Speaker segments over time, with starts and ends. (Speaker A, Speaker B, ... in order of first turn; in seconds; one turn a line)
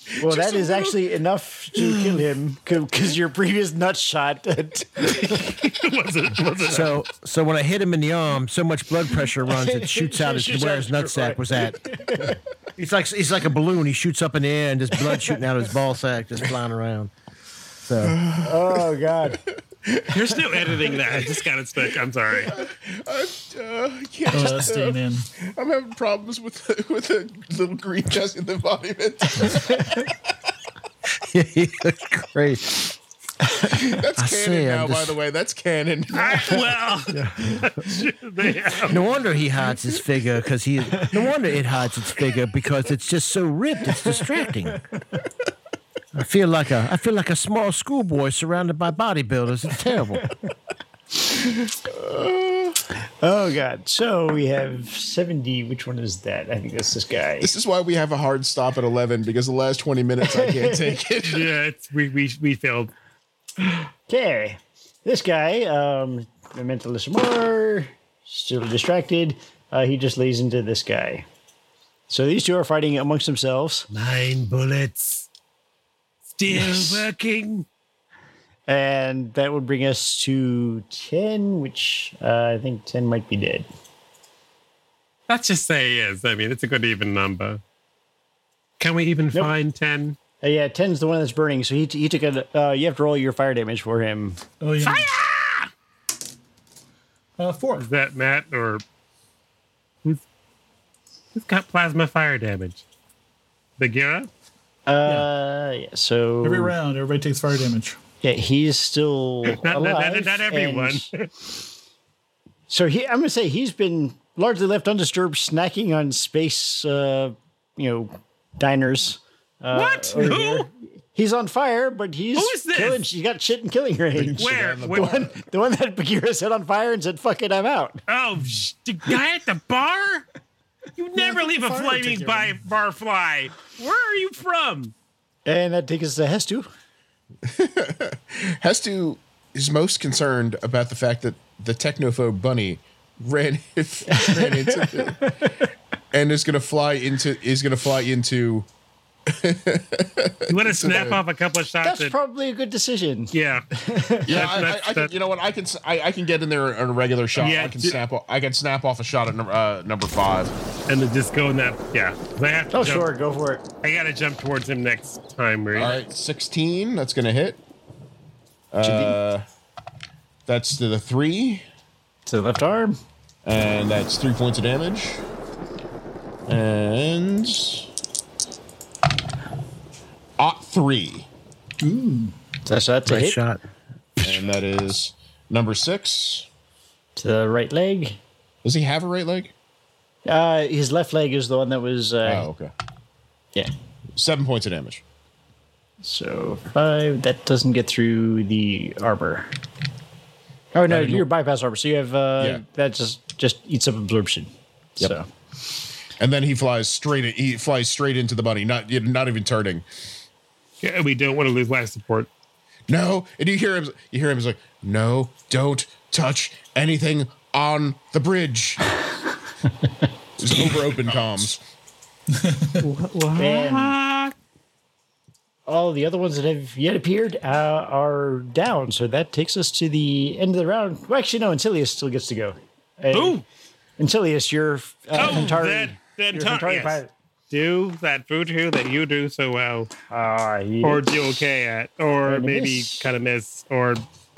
Speaker A: 0.2-5.6
Speaker B: 0.2-1.0
Speaker C: 5.2-6.9
Speaker D: 6.6-11.8
Speaker A: 9.4-12.4
Speaker D: 12.8-17.1
Speaker D: 17.8-18.1
Speaker B: 18.0-19.3
Speaker A: 18.4-19.4
Speaker B: 19.8-21.4
Speaker C: 20.1-22.6
Speaker B: 22.3-30.1
Speaker E: 24.3-25.3
Speaker D: 31.2-32.9
Speaker B: 33.6-36.7
Speaker D: 34.1-35.2
Speaker C: 36.1-39.0
Speaker D: 37.1-37.7
Speaker D: 38.9-44.8
Speaker A: 44.0-44.8
Speaker D: 46.1-50.3
Speaker B: 51.8-52.8
Speaker A: 53.0-57.5
Speaker B: 57.4-61.5
Speaker A: 60.2-61.0
Speaker C: 61.2-62.9
Speaker A: 64.1-71.2
Speaker A: 72.1-73.9
Speaker C: 73.9-75.3
Speaker C: 76.3-77.7
Speaker A: 78.7-83.7
Speaker C: 85.3-87.6
Speaker C: 88.8-90.2
Speaker A: 90.4-94.4
Speaker E: 94.6-95.1
Speaker C: 94.8-95.7
Speaker E: 97.4-97.9
Speaker C: 97.8-98.8
Speaker C: 101.3-102.8
Speaker C: 103.8-104.3
Speaker A: 104.9-106.7
Speaker E: 106.4-108.0
Speaker A: 108.2-111.1
Speaker C: 109.5-111.3
Speaker A: 112.7-128.0
Speaker C: 119.7-120.7
Speaker C: 122.3-123.0
Speaker B: 124.2-125.4
Speaker C: 124.3-125.2
Speaker C: 128.1-130.3
Speaker C: 131.0-134.9
Speaker A: 131.1-132.6
Speaker A: 135.4-136.7
Speaker B: 137.5-145.2
Speaker A: 144.1-145.6
Speaker B: 146.1-148.7
Speaker B: 149.3-151.2
Speaker C: 150.5-152.1
Speaker A: 151.8-154.4
Speaker C: 153.3-153.6
Speaker B: 154.2-160.5
Speaker C: 154.3-155.1
Speaker C: 157.3-157.9
Speaker C: 160.9-163.1
Speaker A: 162.7-163.7
Speaker C: 163.8-166.0
Speaker B: 165.7-167.6
Speaker B: 168.7-169.4
Speaker A: 168.8-169.2
Speaker B: 170.5-171.6
Speaker A: 172.2-173.0
Speaker B: 173.4-175.2
Speaker B: 176.5-177.9
Speaker B: 180.4-181.3
Speaker E: 181.8-182.3
Speaker A: 182.6-183.4
Speaker D: 183.1-183.6
Speaker B: 184.2-186.5
Speaker A: 187.2-188.2
Speaker B: 188.6-189.5
Speaker A: 190.2-192.5
Speaker B: 192.2-192.7
Speaker B: 194.2-195.0
Speaker A: 196.0-199.5
Speaker A: 200.7-205.3
Speaker B: 200.9-201.2
Speaker B: 206.2-209.8
Speaker C: 210.8-212.3
Speaker B: 212.9-218.9
Speaker B: 220.4-221.6
Speaker E: 222.3-222.8
Speaker C: 222.8-224.3
Speaker A: 223.3-224.0
Speaker A: 225.7-233.4
Speaker C: 233.1-233.4
Speaker A: 234.0-237.1
Speaker C: 235.1-239.9
Speaker A: 240.1-241.4
Speaker C: 240.8-244.0
Speaker A: 242.2-243.1